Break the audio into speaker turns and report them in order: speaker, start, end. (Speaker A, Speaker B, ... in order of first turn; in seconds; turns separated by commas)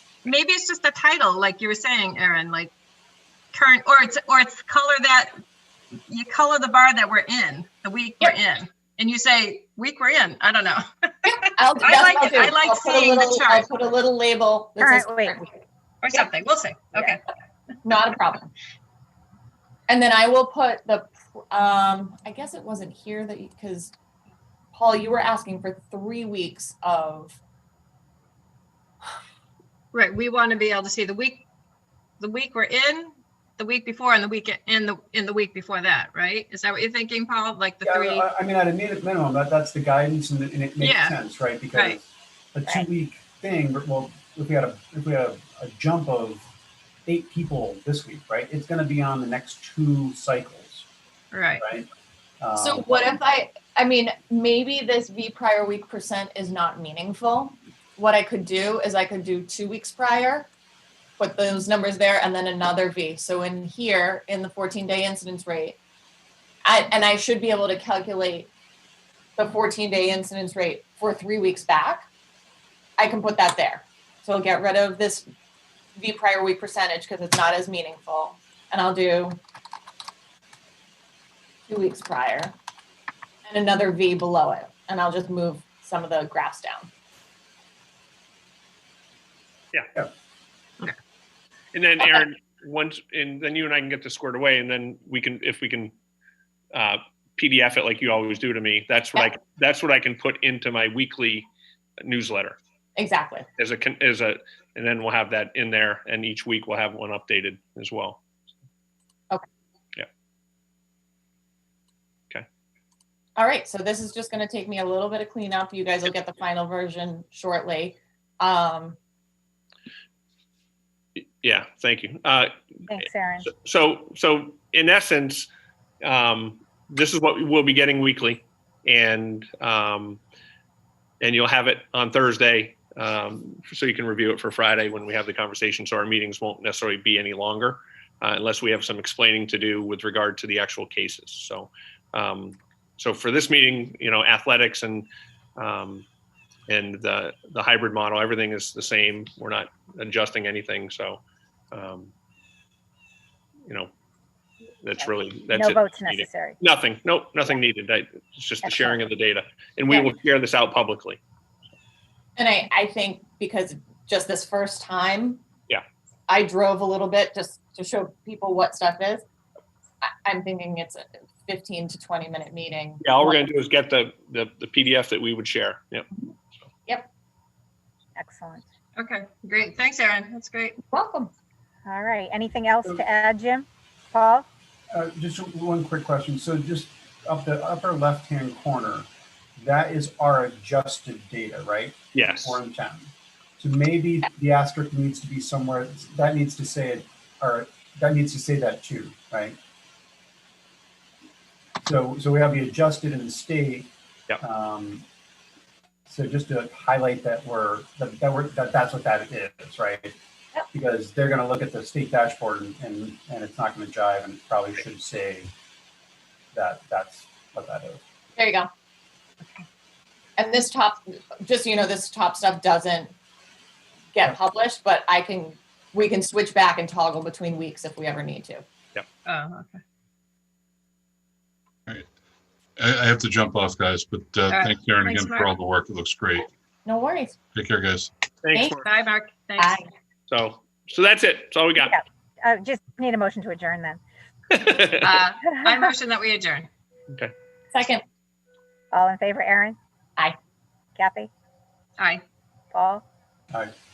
Speaker A: 0.2-2.7, Speaker A: 3.5-5.3, Speaker A: 6.1-13.7, Speaker B: 11.6-15.6, Speaker C: 14.8-15.4, Speaker A: 16.0-17.2, Speaker B: 17.8-18.5, Speaker B: 19.9-23.9, Speaker B: 24.7-27.4, Speaker A: 29.9-31.4, Speaker A: 32.2-38.2, Speaker D: 37.8-46.5, Speaker A: 40.8-41.2, Speaker D: 47.0-50.9, Speaker A: 51.3-51.6, Speaker D: 51.6-51.9, Speaker D: 52.4-53.0, Speaker B: 52.6-60.5, Speaker B: 61.2-65.8, Speaker B: 66.6-68.5, Speaker B: 69.4-72.0, Speaker B: 73.0-75.3, Speaker B: 76.0-79.4, Speaker B: 81.7-82.5, Speaker B: 83.5-86.9, Speaker E: 91.7-95.9, Speaker E: 96.7-101.5, Speaker E: 102.0-102.6, Speaker B: 103.0-103.5, Speaker E: 103.6-108.2, Speaker B: 113.4-119.0, Speaker E: 121.4-125.5, Speaker C: 122.9-123.5, Speaker E: 126.0-130.2, Speaker E: 131.2-146.1, Speaker E: 146.7-152.1, Speaker E: 154.8-161.2, Speaker C: 155.0-156.6, Speaker C: 158.7-159.0, Speaker B: 162.4-165.4, Speaker B: 166.3-169.2, Speaker B: 170.0-173.4, Speaker E: 173.0-176.1, Speaker C: 178.2-178.6, Speaker A: 179.0-180.8, Speaker B: 180.9-181.3, Speaker C: 181.8-184.4, Speaker D: 184.9-199.6, Speaker E: 192.1-192.6, Speaker D: 201.8-205.0, Speaker D: 206.1-210.1, Speaker D: 210.7-215.5, Speaker D: 216.5-218.0, Speaker B: 218.3-218.7, Speaker B: 220.4-223.1, Speaker B: 224.1-228.6, Speaker A: 229.2-229.8, Speaker F: 232.8-236.5, Speaker A: 234.5-235.6, Speaker B: 236.8-237.3, Speaker F: 237.5-238.1, Speaker E: 238.4-238.8, Speaker B: 238.5-238.8, Speaker A: 238.8-239.8, Speaker B: 239.6-239.8, Speaker E: 240.3-242.0, Speaker C: 241.8-244.0, Speaker E: 244.5-245.2, Speaker A: 245.0-246.7, Speaker C: 245.4-245.9, Speaker B: 247.7-248.0, Speaker C: 248.9-249.8, Speaker C: 250.9-251.3, Speaker A: 252.0-252.2, Speaker C: 252.7-253.0